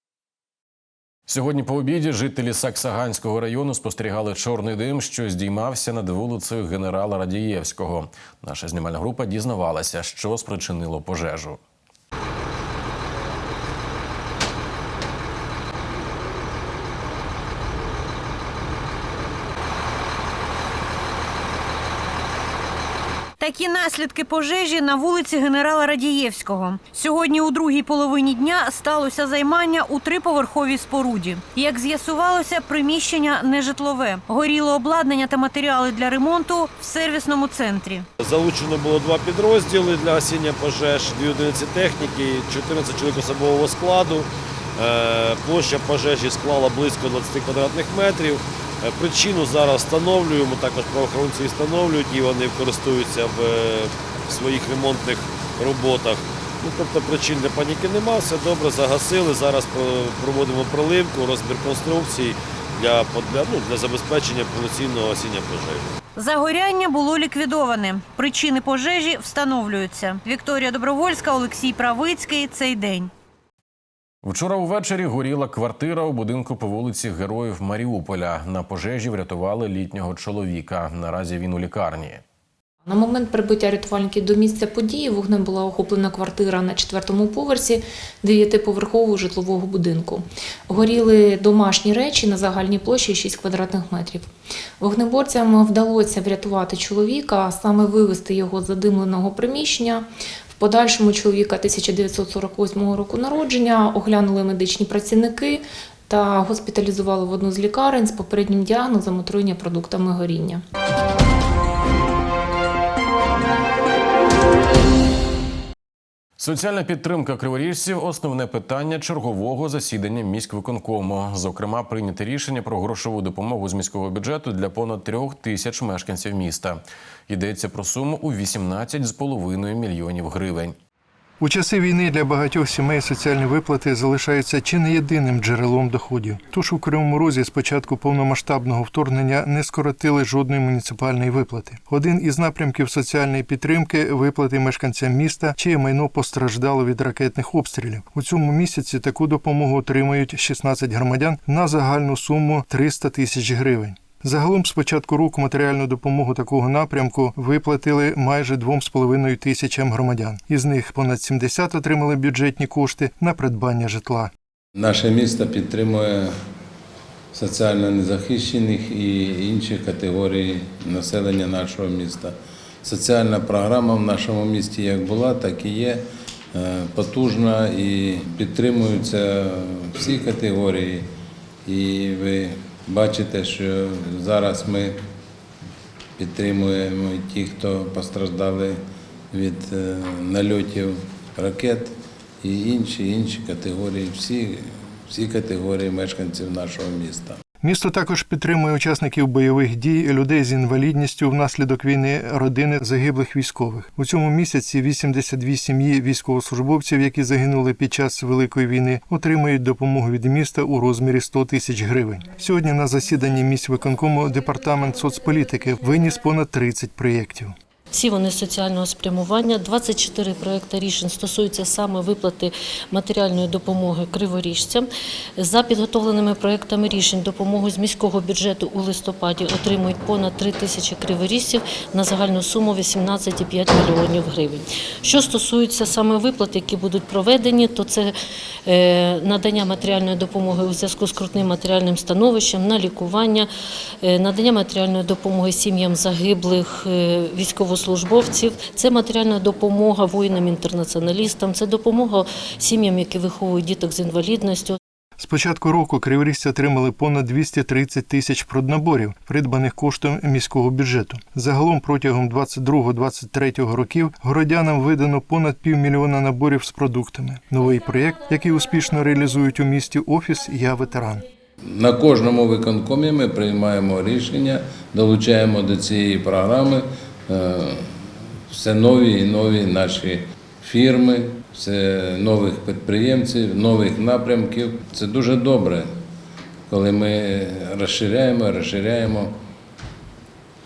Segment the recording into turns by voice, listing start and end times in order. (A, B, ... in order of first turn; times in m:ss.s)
0:01.3-0:11.6 A
0:23.4-0:38.1 B
0:38.2-1:05.9 C
1:06.2-1:13.1 B
1:14.2-1:22.2 A
1:22.8-1:50.6 D
1:56.4-2:10.8 A
2:11.4-2:44.3 E
2:44.8-2:46.4 F
2:47.3-3:01.1 F
3:01.7-3:05.0 F
3:06.2-3:08.8 F
3:09.3-3:17.4 F
3:17.6-3:37.5 E
3:37.9-3:58.1 G
3:58.7-4:03.5 G
4:04.0-4:14.8 G
4:15.2-4:31.2 E
4:31.6-4:45.9 F
4:46.7-4:49.4 F